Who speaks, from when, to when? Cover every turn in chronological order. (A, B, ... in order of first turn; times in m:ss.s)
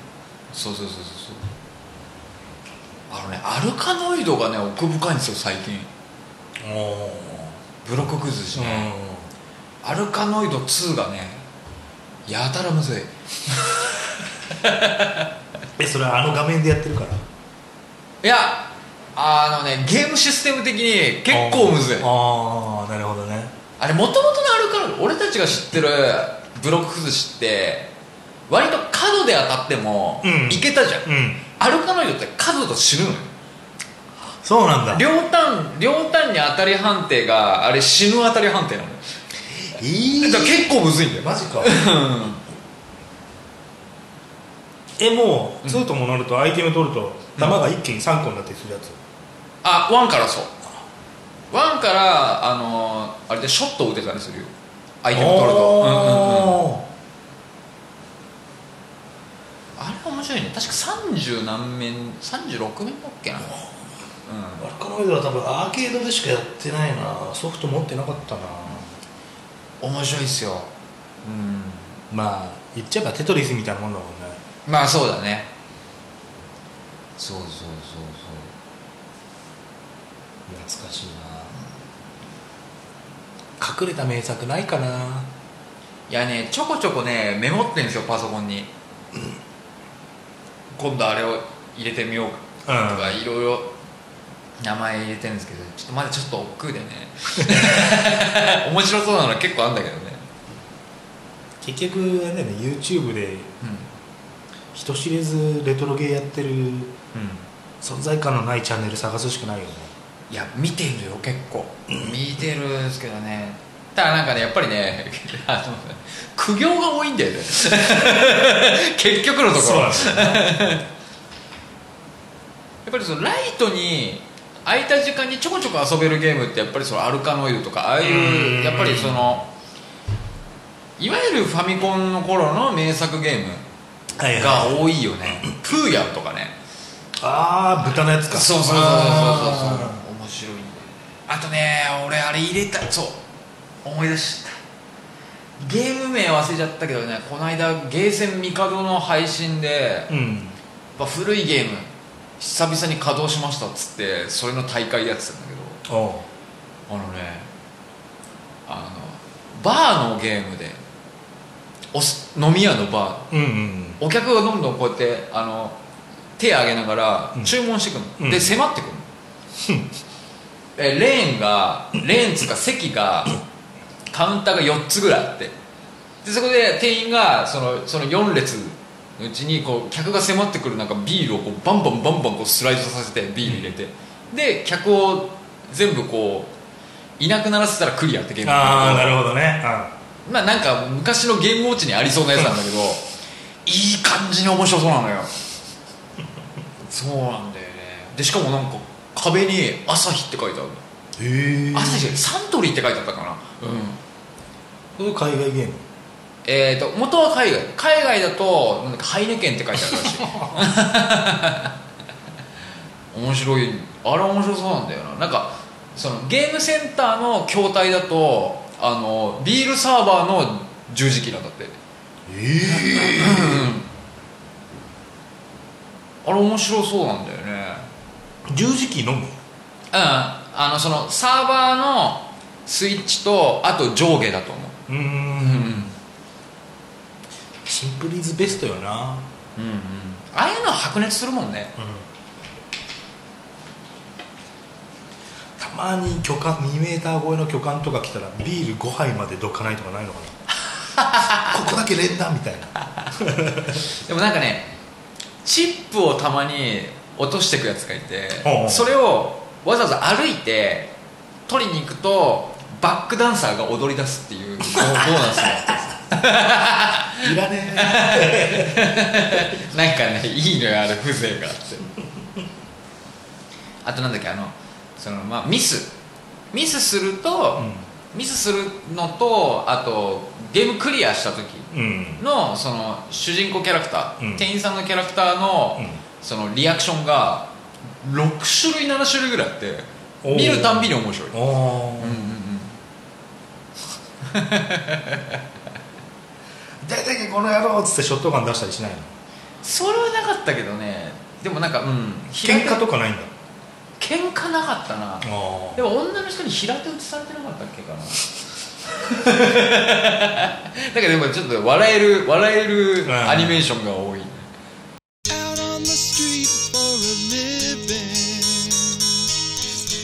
0:00.5-0:01.4 A
0:03.1-0:05.9 A
0:06.6-0:07.6 B
0:07.8-0:08.9 A
0:08.5-0:09.3 B
0:09.8-0:11.4 A
0:12.3-0:15.3 A
0:15.8-0:17.2 B
0:18.2-0:22.1 A
0:21.3-0:23.5 B
0:23.8-0:27.9 A
0:28.5-0:33.3 A
0:30.2-0:31.4 B
0:34.4-0:35.0 B
0:34.9-0:39.0 A
0:39.7-0:41.8 B
0:40.2-0:42.4 A
0:45.0-0:49.0 B
0:49.6-0:50.5 A
0:51.5-0:54.5 A
0:55.0-0:56.6 A
0:55.1-0:56.8 B
0:59.8-1:03.6 A
1:04.2-1:04.6 A
1:04.6-1:09.0 B
1:09.8-1:10.7 A
1:11.2-1:12.0 A
1:12.1-1:14.4 B
1:14.6-1:15.5 A
1:17.2-1:18.5 A
1:20.5-1:21.6 B
1:23.6-1:25.3 B
1:26.1-1:28.7 A
1:30.7-1:33.7 A
1:32.6-1:33.2 B
1:34.6-1:40.2 A
1:37.4-1:37.9 B
1:41.6-1:43.5 B
1:43.6-1:43.9 A
1:44.7-1:46.9 B
1:47.1-1:47.4 A
1:47.8-1:49.9 B
1:50.3-2:00.8 A
1:59.5-2:00.7 B
2:02.8-2:09.5 A
2:08.0-2:09.3 B
2:11.0-2:13.6 A
2:14.2-2:14.8 B
2:14.3-2:16.5 A
2:17.2-2:20.0 B
2:17.8-2:23.2 A
2:23.8-2:24.6 A
2:25.6-2:30.1 A
2:30.1-2:30.6 B
2:31.0-2:35.8 A
2:35.9-2:36.2 B
2:36.9-2:37.5 A
2:38.7-2:40.8 A
2:41.9-2:43.3 A
2:43.3-2:44.0 B
2:44.0-2:45.8 A
2:46.4-2:49.1 A
2:48.2-2:48.6 B
2:49.6-2:49.9 B
2:50.8-2:53.4 A
2:54.1-2:55.6 A
2:56.2-3:06.5 A
3:03.4-3:03.7 B
3:07.2-3:09.2 A
3:08.4-3:09.9 B
3:10.2-3:13.0 A
3:13.6-3:15.3 A
3:16.8-3:20.8 A
3:21.2-3:22.2 B
3:21.7-3:24.0 A
3:25.0-3:25.8 B
3:26.4-3:31.7 A
3:33.1-3:41.8 A
3:42.3-3:43.7 B
3:42.7-3:43.9 A
3:46.2-3:47.9 A
3:48.5-3:49.4 B
3:49.9-3:54.8 A
3:54.9-3:55.9 B
3:55.3-3:55.9 A
3:57.6-3:59.2 B
3:59.6-4:01.7 A
4:01.8-4:02.0 B
4:05.6-4:10.4 B
4:11.0-4:11.5 A
4:11.4-4:13.8 B
4:13.9-4:14.7 A
4:15.4-4:20.9 A
4:18.4-4:18.9 B
4:21.5-4:31.8 A
4:27.2-4:29.5 B
4:33.8-4:35.9 A
4:36.5-4:51.4 A
4:37.6-4:37.9 B
4:41.7-4:42.2 B
4:44.2-4:44.4 B
4:50.2-4:52.2 B
4:52.0-4:52.8 A
4:54.2-4:55.4 A
4:56.8-4:59.1 B
4:59.6-5:02.8 A
5:02.4-5:03.3 B
5:04.0-5:08.3 A
5:05.2-5:05.8 B
5:08.8-5:14.4 A
5:13.0-5:13.6 B
5:15.3-5:19.2 C